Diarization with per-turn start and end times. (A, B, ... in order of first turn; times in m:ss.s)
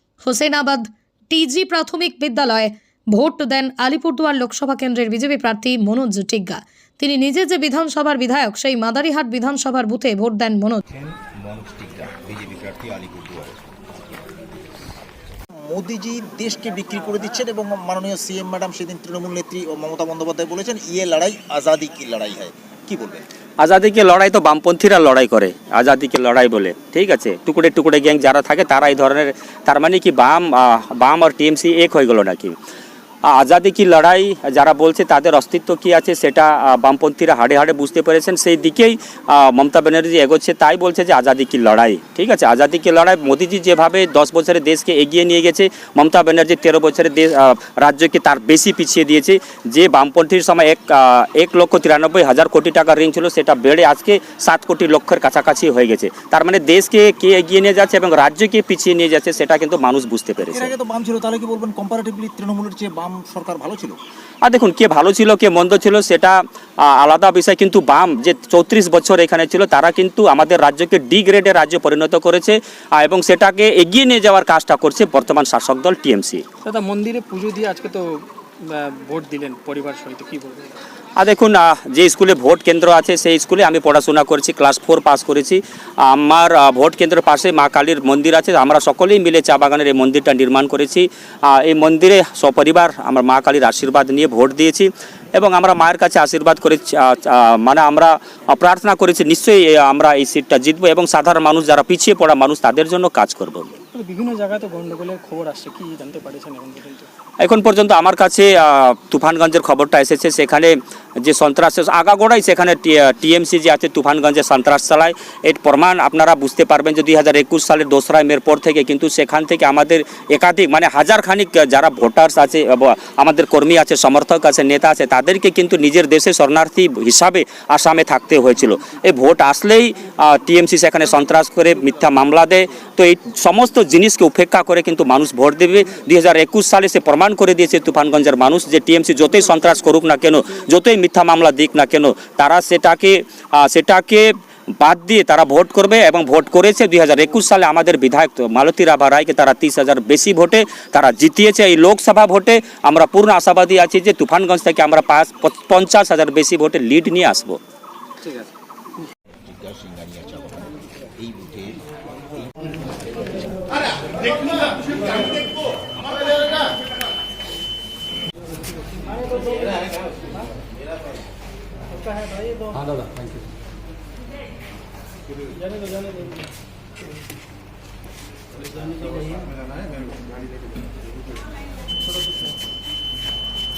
0:00.2-0:10.8 A
0:11.4-0:13.5 B
0:15.7-0:23.2 C
0:23.6-0:32.6 D
0:33.2-1:00.7 D
1:00.4-1:04.0 C
1:04.4-1:16.4 D
1:16.6-1:20.8 E
1:21.2-1:43.7 D
1:43.9-1:47.1 E
1:47.4-2:37.6 D
2:38.2-2:38.5 E
2:39.5-2:41.8 C
2:44.3-2:44.7 C